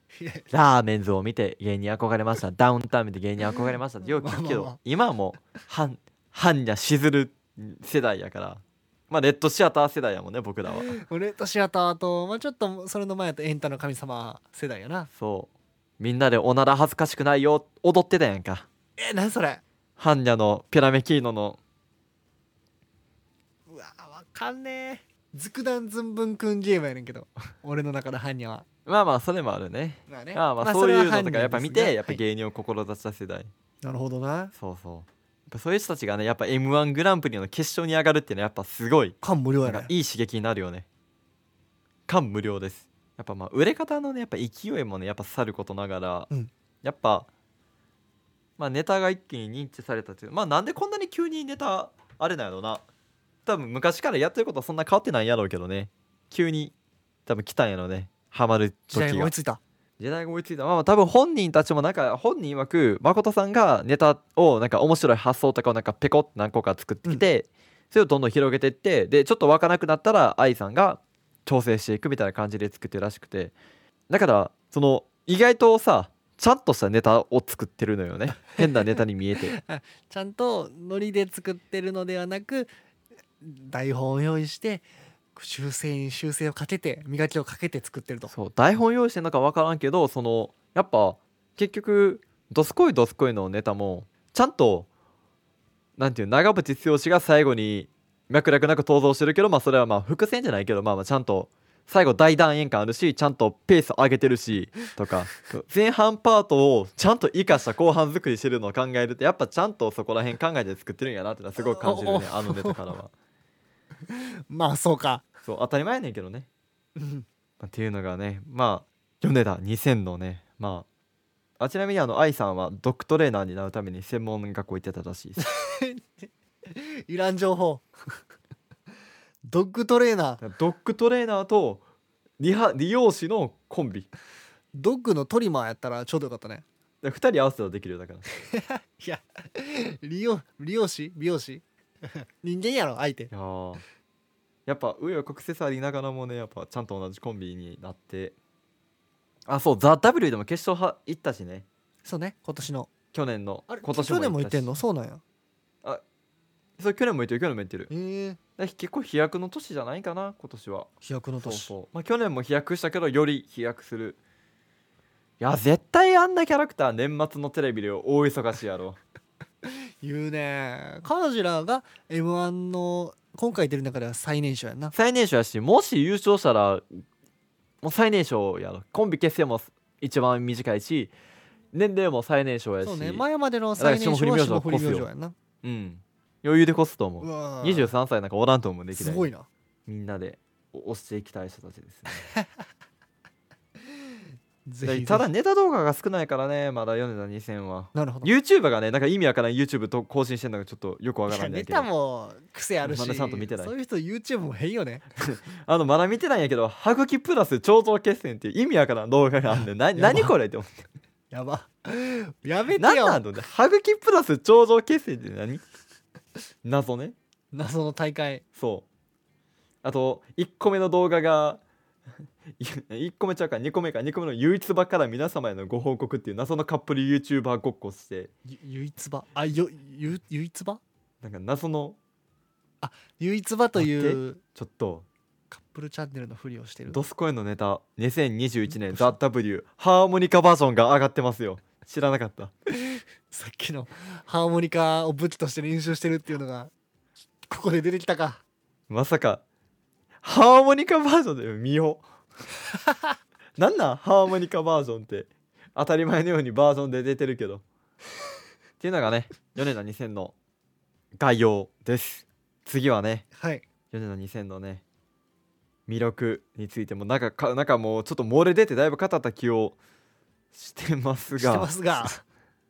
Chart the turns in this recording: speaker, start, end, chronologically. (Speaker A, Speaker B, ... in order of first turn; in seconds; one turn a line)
Speaker A: 0.2-0.5
Speaker B: 0.5-10.9
Speaker A: 4.2-4.8
Speaker A: 10.7-15.1
Speaker B: 15.2-18.7
Speaker A: 19.0-19.6
Speaker B: 20.0-21.6
Speaker A: 23.7-28.6
Speaker B: 28.9-33.5
Speaker A: 30.1-32.2
Speaker A: 33.8-34.5
Speaker B: 34.5-40.9
Speaker A: 39.2-39.9
Speaker B: 42.1-46.3
Speaker B: 46.8-47.3
Speaker B: 48.6-52.8
Speaker B: 53.5-56.7
Speaker B: 57.2-59.3
Speaker A: 58.9-59.6
Speaker B: 60.0-73.5
Speaker B: 74.1-79.5
Speaker A: 79.5-82.7
Speaker A: 83.4-88.3
Speaker B: 88.3-94.9
Speaker B: 96.0-113.1
Speaker A: 111.6-112.8
Speaker A: 114.5-115.2
Speaker B: 115.4-116.5
Speaker A: 117.0-117.2
Speaker B: 117.6-120.9
Speaker B: 121.6-125.4
Speaker A: 125.4-127.8
Speaker A: 129.5-130.4
Speaker B: 130.4-131.8
Speaker B: 132.4-134.1
Speaker A: 134.7-136.6
Speaker B: 137.0-138.2
Speaker A: 138.5-141.6
Speaker A: 142.1-143.3
Speaker B: 143.3-143.8
Speaker B: 144.7-148.3
Speaker B: 149.5-151.7
Speaker A: 152.0-152.9
Speaker B: 153.1-154.7
Speaker A: 153.7-155.2
Speaker B: 156.8-157.9
Speaker A: 157.9-158.4
Speaker B: 158.6-160.9
Speaker A: 161.0-161.7
Speaker B: 161.4-164.2
Speaker B: 165.4-169.0
Speaker A: 169.7-174.9
Speaker B: 174.9-177.0
Speaker B: 177.8-181.1
Speaker B: 181.7-183.2
Speaker A: 182.8-185.3
Speaker B: 183.8-185.1
Speaker B: 185.6-189.3
Speaker A: 187.2-187.9
Speaker A: 188.9-189.5
Speaker B: 189.9-192.3
Speaker A: 192.1-192.5
Speaker A: 194.7-195.2
Speaker B: 194.8-201.9
Speaker A: 197.9-198.3
Speaker A: 201.3-205.0
Speaker B: 202.8-203.7
Speaker B: 205.2-210.8
Speaker A: 209.5-210.3
Speaker A: 211.3-213.2
Speaker B: 212.8-215.6
Speaker B: 216.6-217.2
Speaker A: 217.5-218.4
Speaker B: 218.6-218.8
Speaker B: 219.8-221.6
Speaker B: 222.6-228.3
Speaker A: 228.5-230.8
Speaker B: 231.2-232.0
Speaker A: 232.8-234.4
Speaker B: 233.8-235.1
Speaker A: 235.5-237.0
Speaker B: 236.9-242.5
Speaker A: 238.7-239.1
Speaker A: 243.3-246.7
Speaker A: 247.5-248.4
Speaker B: 248.9-249.4
Speaker B: 250.2-252.0
Speaker B: 253.6-257.6
Speaker B: 258.8-260.3
Speaker B: 261.1-263.3
Speaker A: 263.4-263.6
Speaker B: 263.9-264.8
Speaker B: 265.9-269.8
Speaker B: 270.5-272.1
Speaker A: 271.4-272.2